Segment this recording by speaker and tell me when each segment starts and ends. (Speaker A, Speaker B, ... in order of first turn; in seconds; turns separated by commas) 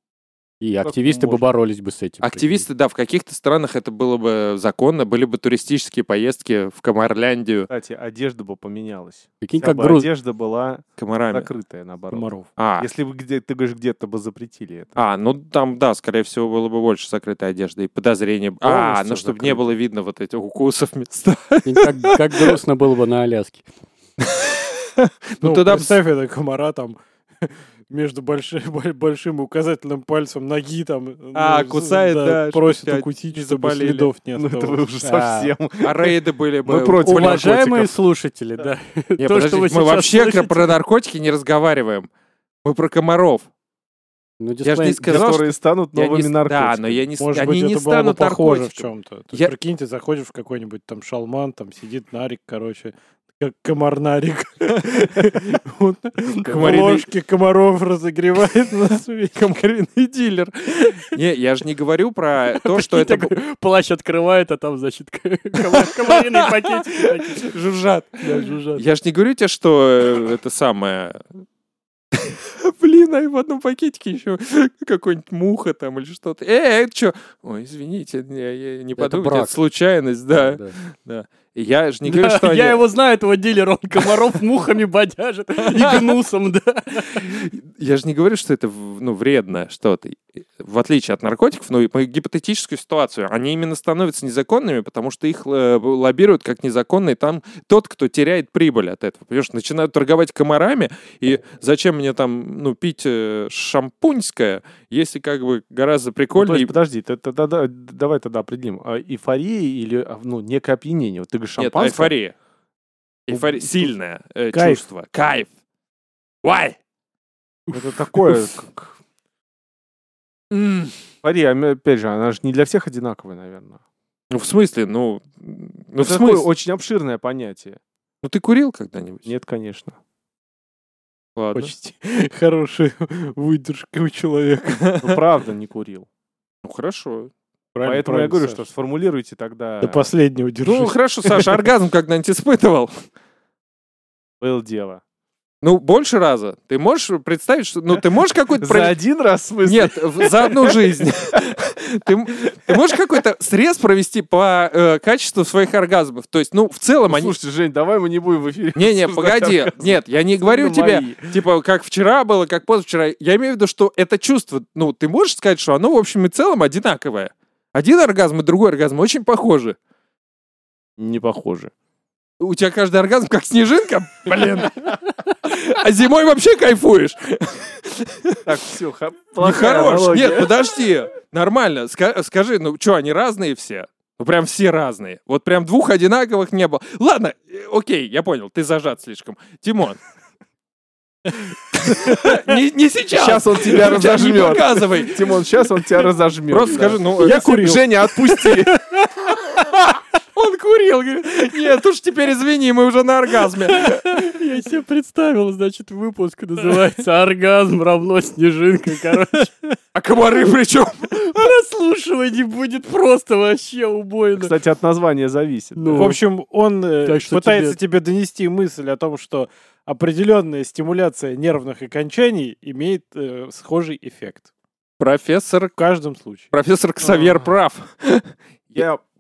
Speaker A: 0.6-2.6, Speaker B: 0.8-1.4, Speaker C: 2.2-7.7, Speaker B: 7.7-14.9, Speaker A: 9.4-10.1, Speaker C: 11.0-11.5, Speaker D: 12.1-12.5, Speaker C: 12.6-12.9, Speaker C: 14.9-22.6, Speaker B: 18.6-19.7, Speaker A: 21.6-23.6, Speaker C: 24.3-24.6, Speaker C: 25.4-26.0, Speaker D: 25.4-34.9, Speaker C: 31.3-34.1, Speaker B: 34.4-37.9, Speaker A: 35.0-35.5, Speaker C: 35.8-37.5, Speaker A: 37.0-40.8, Speaker C: 39.2-42.1, Speaker C: 42.6-43.5, Speaker A: 44.4-45.2, Speaker C: 44.6-49.5, Speaker B: 45.0-47.0, Speaker D: 47.2-59.4, Speaker C: 56.4-57.1, Speaker C: 59.3-63.4, Speaker A: 62.5-67.5, Speaker C: 65.7-71.3, Speaker A: 68.2-68.8, Speaker C: 72.1-82.8, Speaker A: 79.0-79.5, Speaker A: 80.4-80.7, Speaker A: 82.0-87.5, Speaker C: 84.0-84.3, Speaker C: 85.6-86.2, Speaker C: 87.0-106.7, Speaker B: 106.3-112.1, Speaker C: 111.6-112.3, Speaker C: 113.3-115.5, Speaker B: 113.3-113.9, Speaker D: 114.5-114.8, Speaker C: 116.4-116.8, Speaker B: 117.7-119.0, Speaker C: 120.5-121.0, Speaker B: 121.2-123.8, Speaker C: 124.3-126.5, Speaker B: 126.0-127.8, Speaker C: 128.2-129.3, Speaker B: 129.2-130.0, Speaker C: 131.3-131.7, Speaker D: 131.5-135.0, Speaker C: 134.9-135.1, Speaker B: 135.0-136.1, Speaker C: 136.6-137.3, Speaker D: 137.7-138.6, Speaker B: 137.8-140.1, Speaker D: 139.8-141.4, Speaker C: 140.6-143.0, Speaker B: 144.4-145.0, Speaker C: 145.6-148.9, Speaker B: 148.6-151.4, Speaker C: 149.6-157.3, Speaker B: 157.1-161.4, Speaker C: 158.8-169.8, Speaker B: 171.0-171.7, Speaker C: 172.4-178.5, Speaker B: 178.4-180.5, Speaker C: 179.4-190.0, Speaker C: 191.7-195.5, Speaker B: 193.1-198.7, Speaker C: 196.5-197.6, Speaker D: 197.2-197.8, Speaker C: 199.3-204.1, Speaker A: 203.7-209.8, Speaker C: 209.9-211.2, Speaker A: 211.1-214.6, Speaker B: 214.3-216.2, Speaker A: 215.8-216.2, Speaker D: 215.9-224.5, Speaker A: 217.0-217.8, Speaker C: 225.0-225.7, Speaker D: 225.8-226.5, Speaker C: 226.5-228.9, Speaker B: 228.8-229.0